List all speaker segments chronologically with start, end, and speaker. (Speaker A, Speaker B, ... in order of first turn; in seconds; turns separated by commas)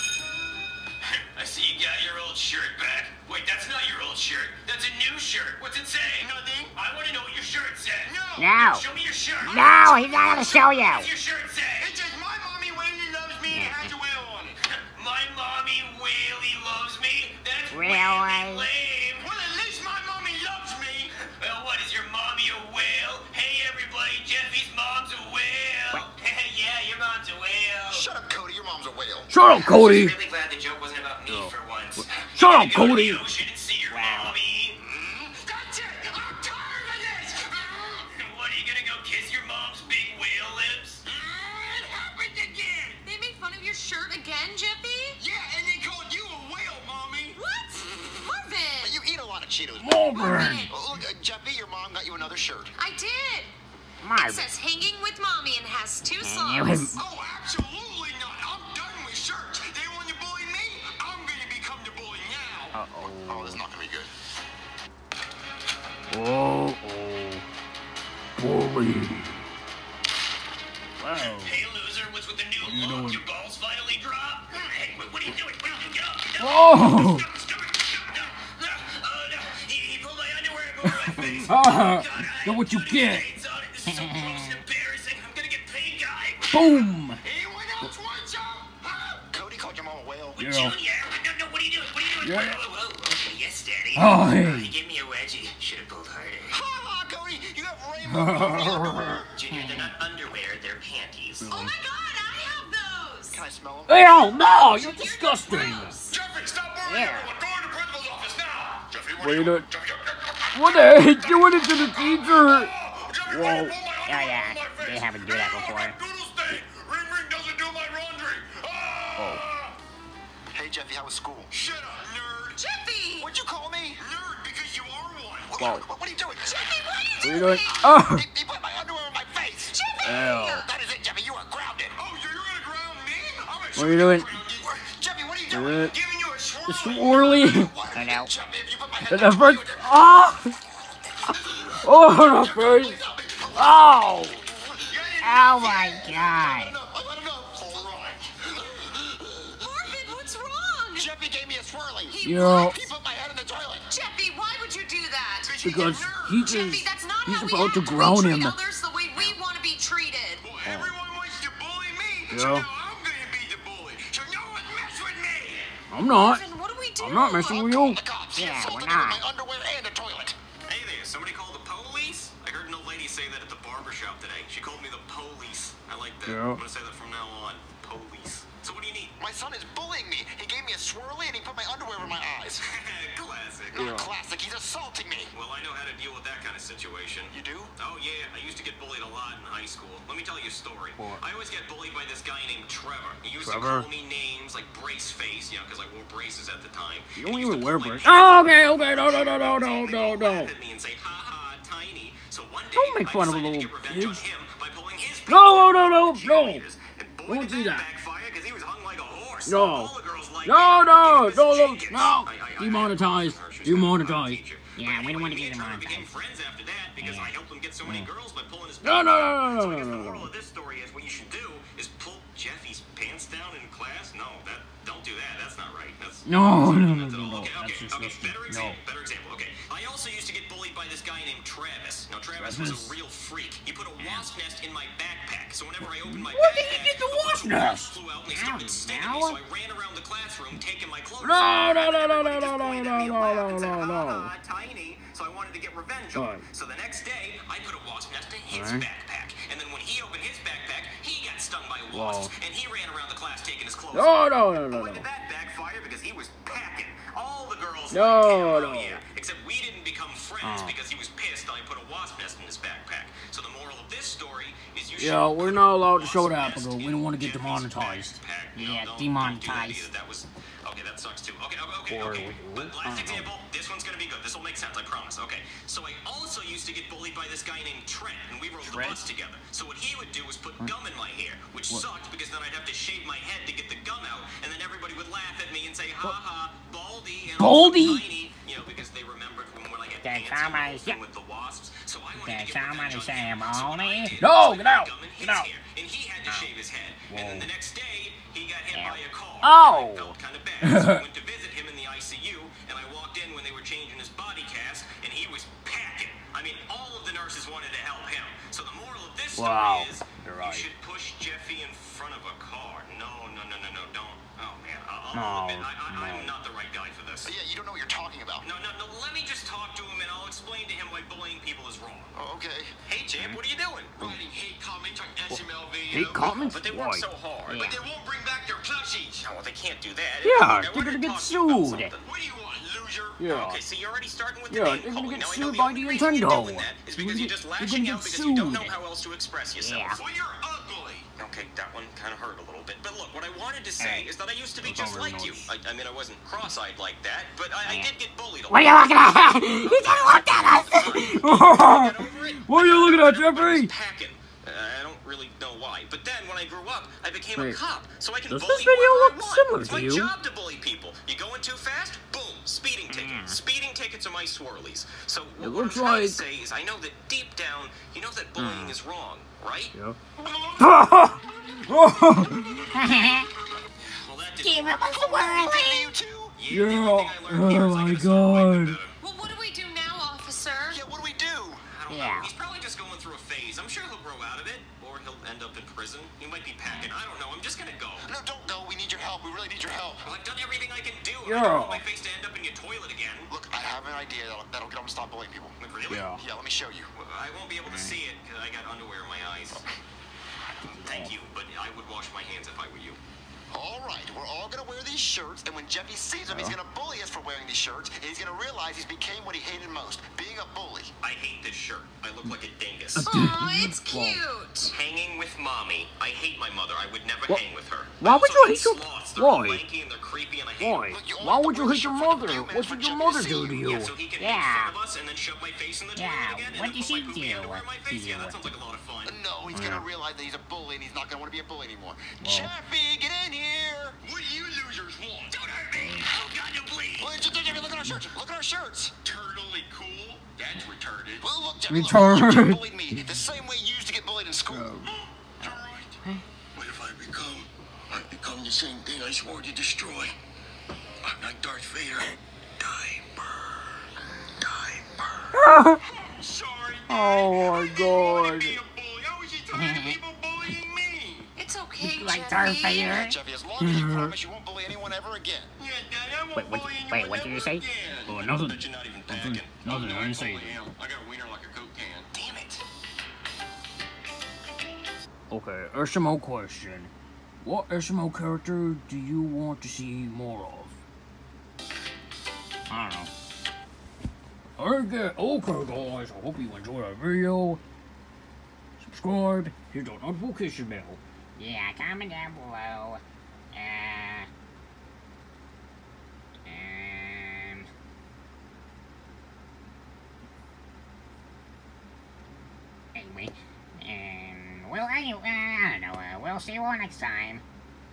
Speaker A: 1.0-12.0, Speaker B: 6.2-6.7, Speaker C: 6.3-6.5, Speaker B: 8.1-8.5, Speaker D: 8.4-8.8, Speaker D: 9.4-11.1, Speaker E: 9.7-10.9, Speaker B: 11.8-14.6, Speaker D: 13.5-13.9, Speaker A: 14.8-19.3, Speaker D: 17.7-18.7, Speaker C: 19.2-20.1, Speaker B: 19.6-21.1, Speaker A: 21.1-28.1, Speaker C: 27.9-29.3, Speaker E: 29.3-30.1, Speaker A: 29.4-34.8, Speaker E: 31.2-33.3, Speaker D: 33.9-34.3, Speaker C: 34.9-35.7, Speaker B: 35.4-37.3, Speaker A: 37.0-41.0, Speaker B: 41.1-43.0, Speaker C: 41.1-41.6, Speaker F: 43.0-45.2, Speaker B: 45.2-47.4, Speaker F: 47.3-48.9, Speaker C: 48.8-52.7, Speaker E: 49.8-50.7, Speaker F: 49.9-50.8, Speaker F: 52.8-53.5, Speaker E: 54.0-54.3, Speaker F: 54.1-57.0, Speaker D: 54.2-54.5, Speaker E: 56.2-57.0, Speaker B: 56.9-62.7, Speaker E: 62.7-63.6, Speaker C: 63.0-64.1, Speaker E: 66.1-67.4, Speaker E: 68.4-69.4, Speaker E: 71.0-71.6, Speaker A: 71.1-86.9, Speaker E: 72.6-73.2, Speaker E: 76.4-77.2, Speaker E: 80.8-83.3, Speaker D: 84.1-84.4, Speaker E: 86.5-87.2, Speaker B: 87.3-89.1, Speaker C: 89.2-90.4, Speaker A: 90.3-96.6, Speaker E: 90.4-90.8, Speaker E: 92.2-92.6, Speaker E: 93.9-94.7, Speaker C: 96.5-99.3, Speaker E: 98.1-99.7, Speaker A: 99.3-101.5, Speaker D: 99.5-99.8, Speaker E: 101.4-101.7, Speaker F: 101.5-103.4, Speaker C: 103.3-104.1, Speaker E: 103.9-106.0, Speaker F: 104.6-106.2, Speaker B: 106.1-119.8, Speaker D: 106.8-107.3, Speaker E: 109.2-109.7, Speaker E: 110.5-112.7, Speaker E: 113.2-113.8, Speaker D: 114.0-116.0, Speaker E: 119.2-119.4, Speaker C: 120.5-121.5, Speaker B: 121.5-122.6, Speaker F: 122.5-123.3, Speaker C: 123.2-124.0, Speaker B: 124.0-125.6, Speaker C: 125.5-129.8, Speaker E: 125.6-125.8, Speaker F: 126.5-127.9, Speaker E: 127.2-128.3, Speaker F: 129.6-130.6, Speaker E: 130.0-130.6, Speaker C: 130.4-131.9, Speaker B: 131.9-134.7, Speaker E: 133.7-134.3, Speaker C: 134.6-140.0, Speaker E: 135.5-135.9, Speaker B: 136.0-136.5, Speaker E: 136.7-137.7, Speaker D: 137.9-138.3, Speaker E: 139.0-140.6, Speaker E: 141.8-143.0, Speaker C: 141.9-144.1, Speaker E: 143.5-144.4, Speaker C: 144.8-148.9, Speaker D: 145.2-146.7, Speaker E: 145.4-146.7, Speaker F: 149.6-151.1, Speaker C: 150.9-153.8, Speaker F: 152.1-152.8, Speaker E: 152.2-152.8, Speaker F: 153.9-155.6, Speaker B: 155.4-156.4, Speaker E: 155.6-158.6, Speaker F: 156.4-160.5, Speaker B: 160.4-165.7, Speaker E: 160.6-160.9, Speaker E: 162.3-162.7, Speaker E: 165.9-169.2, Speaker F: 166.1-167.7, Speaker C: 167.5-170.3, Speaker D: 168.4-169.2, Speaker A: 170.7-179.2, Speaker E: 176.2-176.6, Speaker C: 179.2-182.6, Speaker A: 182.6-184.0, Speaker C: 183.7-185.3, Speaker E: 183.8-184.1, Speaker A: 185.3-317.3, Speaker C: 187.3-187.7, Speaker E: 191.0-191.2, Speaker E: 193.4-193.9, Speaker E: 197.2-200.5, Speaker E: 202.7-204.2, Speaker E: 205.3-206.6, Speaker E: 207.2-207.9, Speaker E: 209.4-214.4, Speaker D: 214.8-216.1, Speaker E: 215.3-215.9, Speaker D: 217.0-217.3, Speaker E: 217.8-218.1, Speaker E: 218.8-220.3, Speaker E: 226.2-228.8, Speaker E: 232.3-233.0, Speaker E: 235.8-238.0, Speaker D: 238.3-239.4, Speaker E: 241.2-244.3, Speaker E: 246.1-246.4, Speaker E: 248.5-248.9, Speaker E: 251.9-252.3, Speaker E: 253.9-255.1, Speaker E: 257.9-259.0, Speaker E: 260.4-260.7, Speaker E: 265.0-269.9, Speaker E: 271.9-273.3, Speaker E: 278.6-279.0, Speaker E: 287.4-288.1, Speaker D: 290.0-291.0, Speaker D: 292.1-294.2, Speaker E: 294.2-295.5, Speaker E: 297.1-297.5, Speaker D: 298.7-299.7, Speaker E: 299.4-301.0, Speaker E: 309.4-310.7, Speaker E: 315.1-316.4, Speaker C: 317.2-318.5, Speaker A: 318.4-322.1, Speaker C: 322.1-322.8, Speaker A: 322.8-324.1, Speaker B: 324.0-326.3, Speaker E: 325.3-327.7, Speaker A: 326.4-327.6, Speaker B: 327.6-329.3, Speaker A: 329.2-332.1, Speaker E: 330.2-331.9, Speaker B: 332.0-333.2, Speaker E: 333.2-333.6, Speaker A: 333.2-340.0, Speaker E: 334.5-338.8, Speaker D: 339.6-340.0, Speaker B: 339.9-341.1, Speaker A: 341.1-369.7, Speaker E: 343.8-344.1, Speaker E: 344.6-345.5, Speaker E: 347.6-347.9, Speaker D: 348.5-351.1, Speaker E: 348.7-353.7, Speaker E: 358.3-360.1, Speaker E: 362.9-363.4, Speaker E: 365.4-366.2, Speaker E: 368.4-368.7, Speaker E: 369.7-370.0, Speaker E: 370.6-373.0, Speaker D: 372.8-373.2, Speaker A: 373.8-374.9, Speaker D: 374.4-375.9, Speaker C: 374.9-376.4, Speaker A: 376.4-379.0, Speaker E: 376.5-378.8, Speaker F: 379.0-380.8, Speaker C: 380.7-381.6, Speaker A: 381.6-388.1, Speaker D: 381.9-382.3, Speaker C: 388.0-390.1, Speaker A: 390.0-393.3, Speaker E: 391.2-391.8, Speaker C: 393.3-395.6, Speaker A: 395.6-396.2, Speaker E: 395.9-396.2, Speaker C: 396.1-396.9, Speaker A: 396.9-399.6, Speaker E: 397.6-397.9, Speaker E: 400.6-401.1, Speaker A: 400.8-403.0, Speaker C: 403.5-410.9, Speaker E: 406.3-406.6, Speaker A: 411.0-413.1, Speaker E: 412.9-414.2, Speaker F: 413.0-414.7, Speaker A: 414.7-420.9, Speaker E: 418.0-419.6, Speaker E: 420.6-423.9, Speaker C: 420.9-423.6, Speaker A: 423.6-429.2, Speaker D: 424.2-424.7, Speaker D: 426.0-428.4, Speaker E: 426.0-426.5, Speaker C: 429.0-434.0, Speaker E: 429.5-429.9, Speaker E: 432.2-432.5, Speaker B: 434.0-435.4, Speaker A: 435.3-437.2, Speaker E: 435.7-436.1, Speaker C: 437.0-438.9, Speaker B: 439.0-441.2, Speaker C: 441.2-444.8, Speaker E: 441.7-442.6, Speaker E: 444.5-444.9, Speaker B: 444.9-445.9, Speaker C: 445.4-445.8, Speaker B: 446.5-450.1, Speaker B: 451.0-452.1, Speaker E: 455.3-455.8, Speaker B: 455.8-461.3, Speaker E: 456.9-458.6, Speaker D: 459.5-460.0, Speaker F: 461.4-462.9, Speaker E: 461.8-464.1, Speaker D: 461.8-462.8, Speaker C: 462.6-465.5, Speaker B: 465.6-468.1, Speaker E: 466.4-470.6, Speaker D: 466.4-467.4, Speaker A: 467.9-470.5, Speaker B: 469.8-472.1, Speaker A: 472.1-472.6, Speaker E: 475.3-476.9, Speaker E: 477.4-480.8, Speaker E: 482.7-483.1, Speaker E: 484.6-487.6, Speaker E: 488.8-491.0, Speaker D: 491.4-493.0, Speaker D: 493.5-494.3, Speaker D: 496.5-497.6, Speaker E: 503.0-503.3, Speaker D: 503.0-503.3, Speaker E: 503.8-505.5, Speaker D: 504.0-504.2, Speaker D: 505.0-507.4